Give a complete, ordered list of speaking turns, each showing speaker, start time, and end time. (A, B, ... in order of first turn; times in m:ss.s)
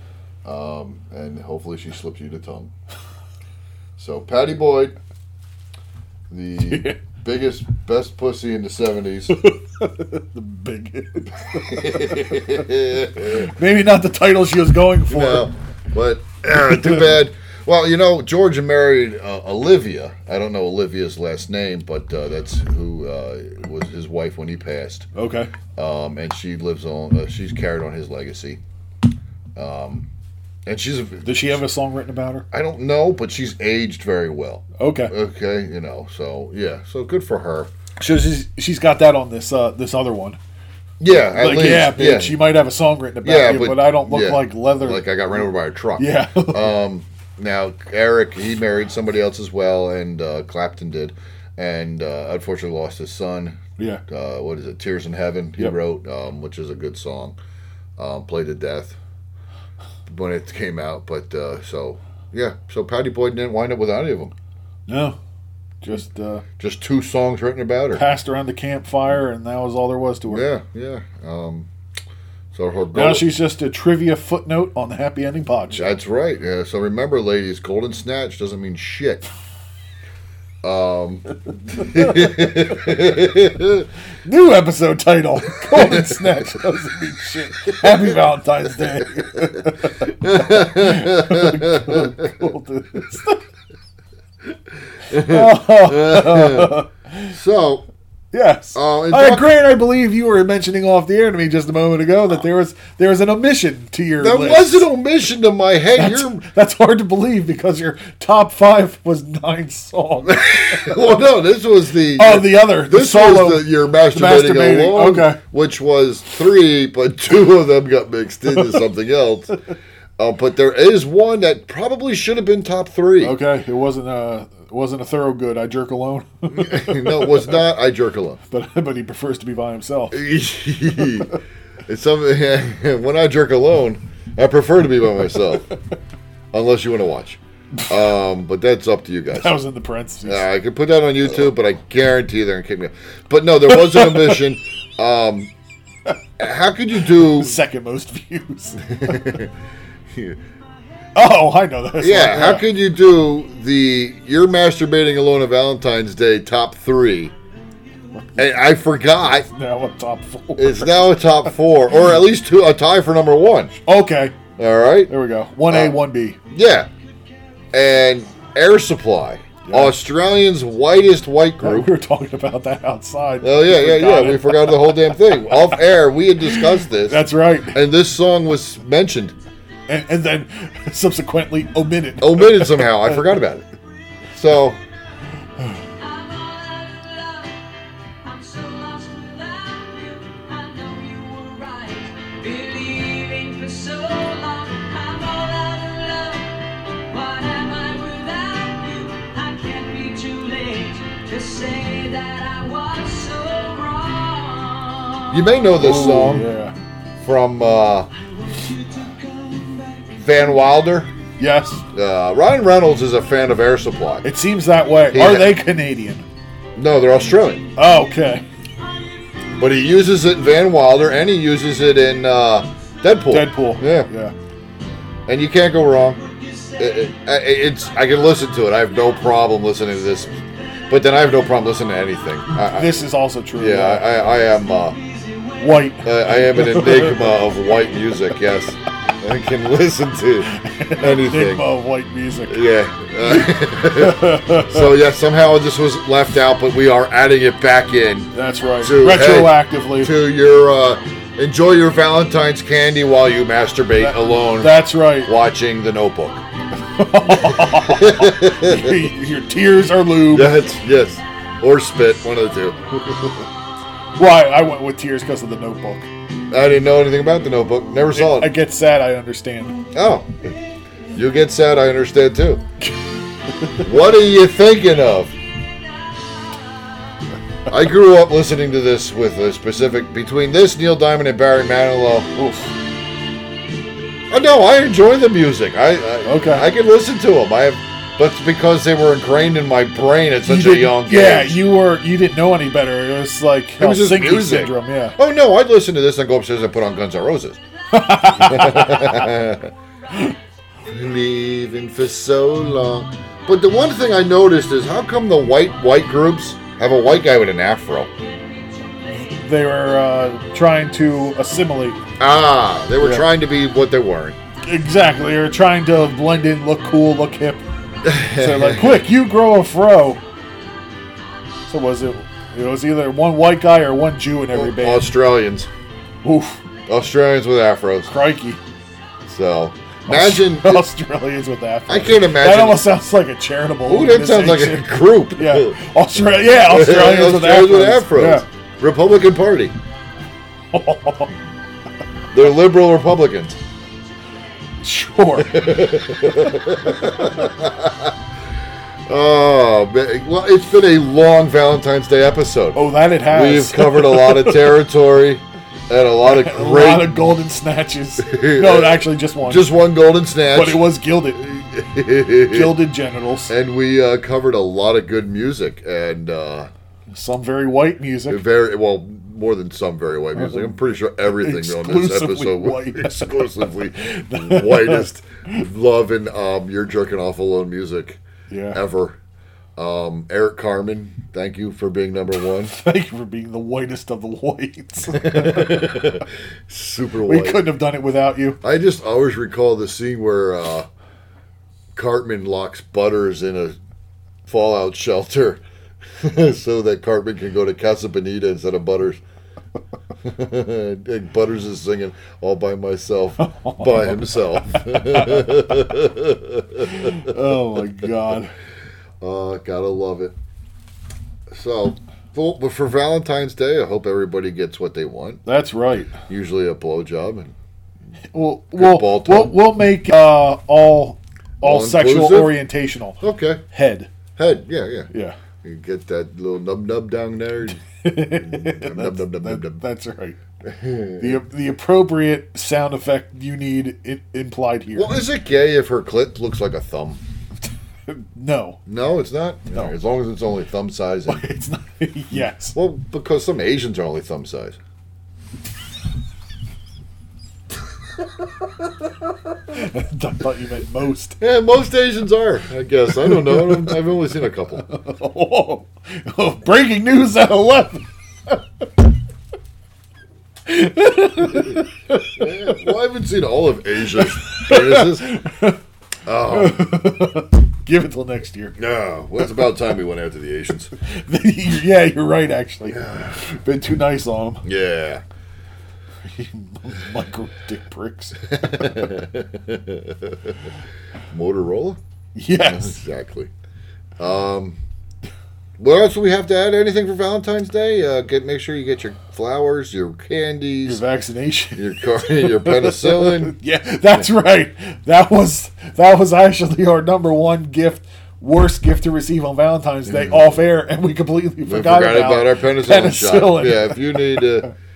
0:00.4-0:02.7 A
0:04.0-0:04.9 A
0:06.3-0:09.4 A
0:06.6-0:07.0 B
0:09.3-0:12.6 B
0:11.5-0:13.5 A
0:13.4-0:15.5 B
0:15.1-0:25.1 A
0:16.7-0:17.1 B
0:25.1-0:25.5 B
0:25.7-0:28.6 A
0:29.6-0:30.1 A
0:30.6-0:31.6 A
0:31.2-0:32.5 B
0:32.5-0:37.7 A
0:34.8-0:35.1 B
0:38.0-0:40.4 B
0:41.0-0:42.5 A
0:41.1-0:45.1 B
0:43.2-0:57.4 A
0:46.0-0:46.7 B
0:58.0-0:59.0 A
1:00.1-1:04.3 A
1:04.9-1:05.2 B
1:05.8-1:06.4 B
1:06.6-1:08.0 A
1:07.9-1:10.4 B
1:10.3-1:11.7 A
1:12.5-1:13.3 A
1:12.9-1:15.9 B
1:15.7-1:19.2 A
1:20.6-1:23.9 A
1:21.9-1:22.2 B
1:24.2-1:33.4 B
1:25.7-1:26.2 A
1:27.6-1:28.1 A
1:30.2-1:32.1 A
1:35.0-1:36.8 A
1:35.1-1:37.4 B
1:37.3-1:37.9 A
1:38.3-1:44.9 B
1:38.7-1:39.5 A
1:44.2-1:46.4 A
1:46.0-1:51.0 B
1:50.2-1:59.6 A
1:52.2-1:55.4 B
2:00.2-2:03.4 A
2:03.2-2:07.6 B
2:06.5-2:08.4 A
2:08.5-2:10.2 B
2:10.1-2:15.7 A
2:16.5-2:19.6 A
2:19.3-2:20.4 B
2:20.2-2:25.5 A
2:23.7-2:24.4 B
2:26.4-2:27.6 A
2:27.1-2:29.2 B
2:28.8-2:29.5 A
2:30.1-2:30.4 A
2:31.2-2:32.7 B
2:32.0-2:37.3 A
2:38.4-2:39.5 A
2:39.5-2:41.5 B
2:40.6-2:43.8 A
2:43.8-2:44.4 B
2:44.6-2:45.1 A
2:45.1-2:46.4 B
2:45.7-2:46.0 A
2:46.5-2:46.9 A
2:47.7-2:51.9 A
2:49.6-2:50.0 B
2:51.6-2:55.6 B
2:53.4-2:59.3 A
2:56.4-2:57.8 B
2:59.9-3:03.3 B
3:02.2-3:03.7 A
3:04.3-3:04.8 A
3:05.9-3:25.6 C
3:25.3-3:26.5 A
3:25.8-3:26.8 B
3:27.2-3:28.1 A
3:28.4-3:30.4 C
3:30.2-3:31.1 A
3:31.4-3:31.8 B
3:31.9-3:34.2 A
3:34.2-3:36.2 B
3:35.1-3:35.6 A
3:36.8-3:37.6 A
3:37.8-3:38.4 B
3:39.6-3:44.1 A
3:43.3-3:44.3 B
3:45.3-3:46.2 A
3:46.2-3:47.0 C
3:46.8-3:50.3 A
3:50.9-3:55.0 A
3:52.5-3:54.1 B
3:54.7-3:55.9 C
3:55.6-3:57.4 B
3:56.0-4:01.7 A
4:00.4-4:02.6 B
4:02.5-4:16.4 A
4:03.2-4:04.9 B
4:08.3-4:10.1 B
4:14.0-4:15.3 B
4:16.8-4:20.6 B
4:17.4-4:19.0 A
4:20.3-4:23.2 A
4:24.2-4:26.1 B
4:26.5-4:28.6 A
4:28.1-4:29.8 B
4:29.9-4:30.5 A
4:31.1-4:32.6 A
4:33.5-4:33.9 B
4:33.8-4:35.3 A
4:37.7-4:42.3 A
4:42.3-4:42.7 B
4:44.3-4:51.6 A
4:46.2-4:46.7 B
4:50.4-4:55.2 B
4:53.8-4:57.6 A
4:57.9-4:59.2 B
4:58.3-4:59.7 A
5:00.9-5:08.1 A
5:08.4-5:09.3 C
5:09.2-5:12.0 B
5:12.2-5:14.4 A
5:13.0-5:13.3 B
5:14.6-5:17.6 B
5:18.0-5:19.1 A
5:18.2-5:20.2 B
5:21.7-5:25.1 B
5:24.5-5:25.7 A
5:26.2-5:26.6 B
5:26.9-5:28.1 A
5:28.1-5:28.6 B
5:29.2-5:30.8 A
5:30.1-5:38.4 B
5:31.9-5:32.9 A
5:33.8-5:35.8 A
5:36.6-5:39.7 A
5:40.7-5:41.3 B
5:42.3-5:43.6 A
5:44.8-5:45.8 B
5:45.4-5:48.1 A
5:49.1-5:57.2 A
5:52.7-5:54.7 B
5:56.2-5:59.7 B
5:58.2-6:02.9 A
6:00.5-6:01.4 B
6:02.5-6:03.5 B
6:03.5-6:06.7 A
6:07.1-6:08.4 B
6:08.3-6:18.2 A
6:10.4-6:10.7 B
6:11.2-6:15.6 B
6:18.5-6:18.8 B
6:18.7-6:19.2 A
6:19.8-6:22.7 A
6:22.7-6:26.2 B
6:25.1-6:27.7 A
6:27.2-6:28.6 B
6:28.6-6:30.9 A
6:31.9-6:33.8 A
6:34.4-6:35.6 A
6:36.1-6:39.2 A
6:40.2-6:47.2 A
6:43.4-6:45.5 B
6:46.8-6:48.5 B
6:49.2-6:50.3 A
6:51.5-6:55.4 A
6:55.4-6:56.2 B
6:56.1-6:57.5 A
6:58.3-7:04.1 B
6:58.7-6:59.6 A
7:01.6-7:02.6 A
7:03.2-7:03.6 A
7:04.4-7:05.1 A
7:05.1-7:05.4 B
7:05.6-7:09.8 A
7:08.0-7:10.4 B
7:10.6-7:11.4 A
7:11.2-7:15.2 B
7:14.9-7:17.2 A
7:18.1-7:18.8 B
7:18.8-7:21.5 A
7:21.3-7:22.8 B
7:22.7-7:24.8 A
7:29.7-7:31.4 B
7:31.4-7:34.8 A
7:33.2-7:34.0 B
7:34.8-7:38.9 B
7:40.6-7:42.8 B
7:42.4-7:45.3 A
7:44.2-7:45.8 B
7:46.2-7:46.9 A
7:46.5-7:48.8 B
7:48.8-7:50.9 A
7:51.0-7:54.6 B
7:52.9-7:53.4 A
7:54.6-7:55.2 A
7:56.2-7:59.1 B
7:58.5-8:00.6 A
8:01.3-8:02.0 A
8:02.3-8:03.0 B
8:02.5-8:03.5 A
8:04.2-8:04.8 A
8:05.8-8:11.0 A
8:10.8-8:24.7 B
8:11.7-8:13.6 A
8:20.1-8:20.6 A
8:21.6-8:24.7 A